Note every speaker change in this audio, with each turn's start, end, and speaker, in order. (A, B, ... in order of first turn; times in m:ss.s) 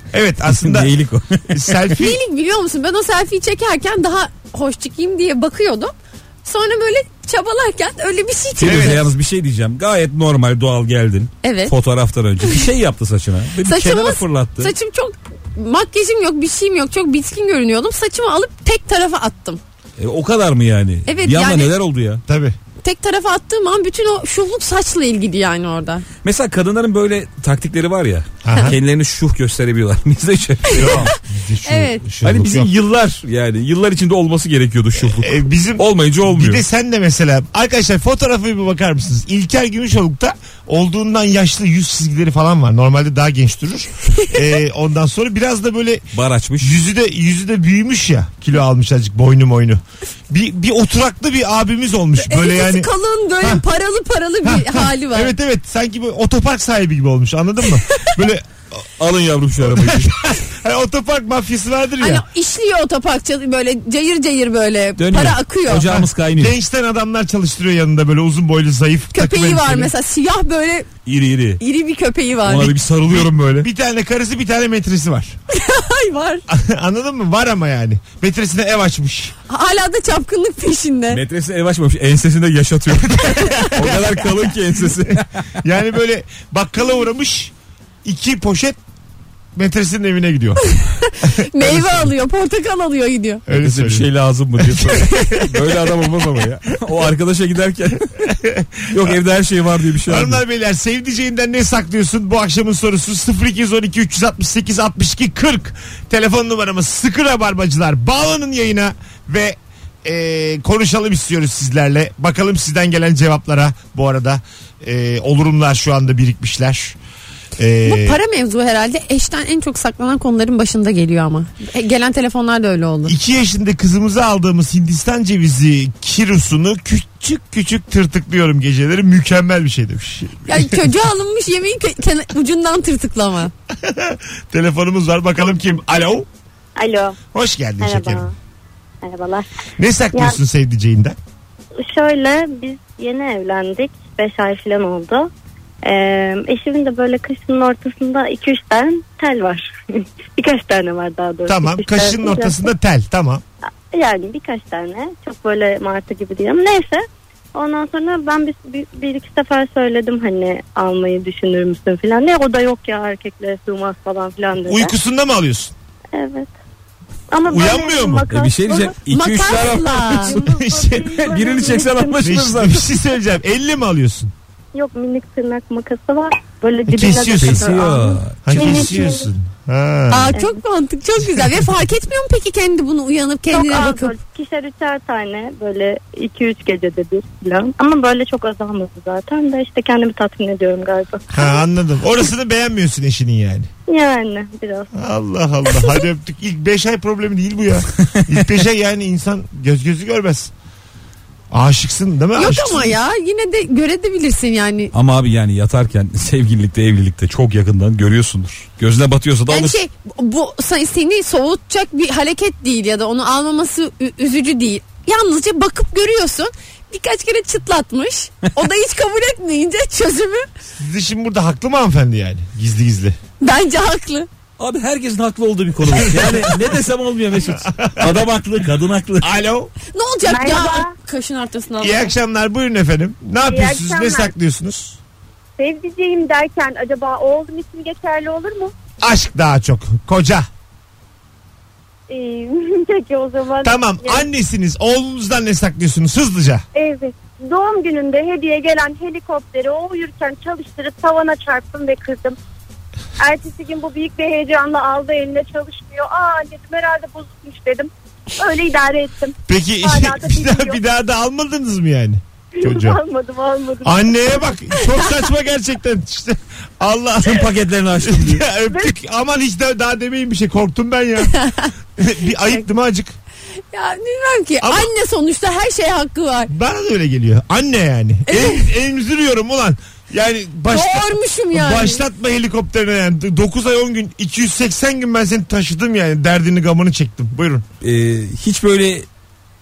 0:00.1-0:00.9 A
0:00.5-0:01.8 B
0:01.5-0:02.2 A
0:01.9-0:05.9 C
0:06.4-0:09.0 C
0:08.6-0:14.7 B
0:08.6-0:09.0 A
0:11.4-0:11.7 C
0:13.7-0:19.6 C
0:20.0-0:22.2 B
0:21.1-0:21.7 C
0:22.3-0:22.6 A
0:22.8-0:26.0 C
0:26.2-0:31.1 B
0:28.4-0:28.8 A
0:30.7-0:31.2 C
0:30.8-0:32.7 A
0:31.7-0:32.0 C
0:32.2-0:36.6 B
0:35.0-0:46.1 A
0:46.1-0:46.8 B
0:46.6-0:52.9 A
0:52.2-0:55.4 C
0:54.4-0:58.8 A
0:59.0-1:00.2 B
0:59.6-1:02.2 A
1:02.0-1:05.9 C
1:05.0-1:06.6 B
1:05.8-1:09.9 A
1:09.1-1:10.9 C
1:11.0-1:11.6 B
1:11.6-1:12.8 C
1:12.5-1:13.7 B
1:13.1-1:15.4 A
1:15.5-1:16.5 C
1:16.5-1:19.4 A
1:19.5-1:21.2 C
1:21.1-1:25.5 B
1:23.1-1:24.3 A
1:24.9-1:27.5 A
1:28.0-1:28.8 A
1:29.6-1:30.6 A
1:30.6-1:33.4 C
1:31.3-1:32.1 A
1:33.5-1:34.1 A
1:33.5-1:38.3 B
1:34.6-1:35.5 A
1:38.3-1:39.2 A
1:38.9-1:40.4 B
1:40.1-1:57.0 A
1:57.6-1:58.2 A
1:57.8-2:03.2 C
2:03.1-2:10.8 A
2:10.5-2:13.5 C
2:13.7-2:16.3 A
2:16.8-2:17.2 D
2:17.3-2:18.3 A
2:17.8-2:18.3 D
2:19.0-2:19.5 D
2:19.8-2:21.2 A
2:20.1-2:20.4 D
2:21.8-2:25.3 D
2:25.8-2:32.7 D
2:31.5-2:33.4 A
2:33.9-2:37.0 D
2:37.6-2:44.9 D
2:44.6-2:45.7 A
2:46.1-2:46.5 D
2:47.3-2:49.0 D
2:47.4-2:48.3 A
2:48.3-2:50.5 B
2:49.1-2:50.4 C
2:49.5-2:52.4 D
2:50.4-2:51.2 A
2:51.0-2:52.9 B
2:52.2-2:54.3 A
2:54.8-2:59.3 D
2:56.9-2:57.8 A
2:57.3-2:59.1 B
2:58.4-3:00.3 A
3:00.1-3:04.2 C
3:00.3-3:00.6 D
3:03.5-3:11.6 D
3:11.3-3:13.7 A
3:13.9-3:14.9 D
3:14.9-3:20.5 A
3:21.5-3:23.0 A
3:22.4-3:24.9 C
3:24.9-3:29.8 B
3:29.5-3:40.4 C
3:40.8-3:43.2 A
3:43.4-3:44.3 C
3:44.6-3:49.3 B
3:45.8-3:46.6 A
3:47.5-3:48.3 A
3:49.2-3:49.7 A
3:49.9-3:52.1 C
3:50.2-3:50.9 E
3:51.8-3:55.0 A
3:53.5-3:54.3 E
3:55.6-3:58.7 E
3:59.0-4:00.5 A
4:02.1-4:04.3 E
4:03.6-4:06.6 A
4:06.8-4:12.4 E
4:13.2-4:20.8 E
4:19.5-4:23.0 A
4:22.6-4:24.4 E
4:23.8-4:31.3 A
4:27.2-4:28.5 B
4:31.3-4:31.7 C
4:32.0-4:33.2 A
4:33.7-4:36.5 C
4:34.6-4:34.9 A
4:36.5-4:47.6 A
4:38.3-4:38.7 C
4:40.7-4:42.0 C
4:47.8-4:49.1 B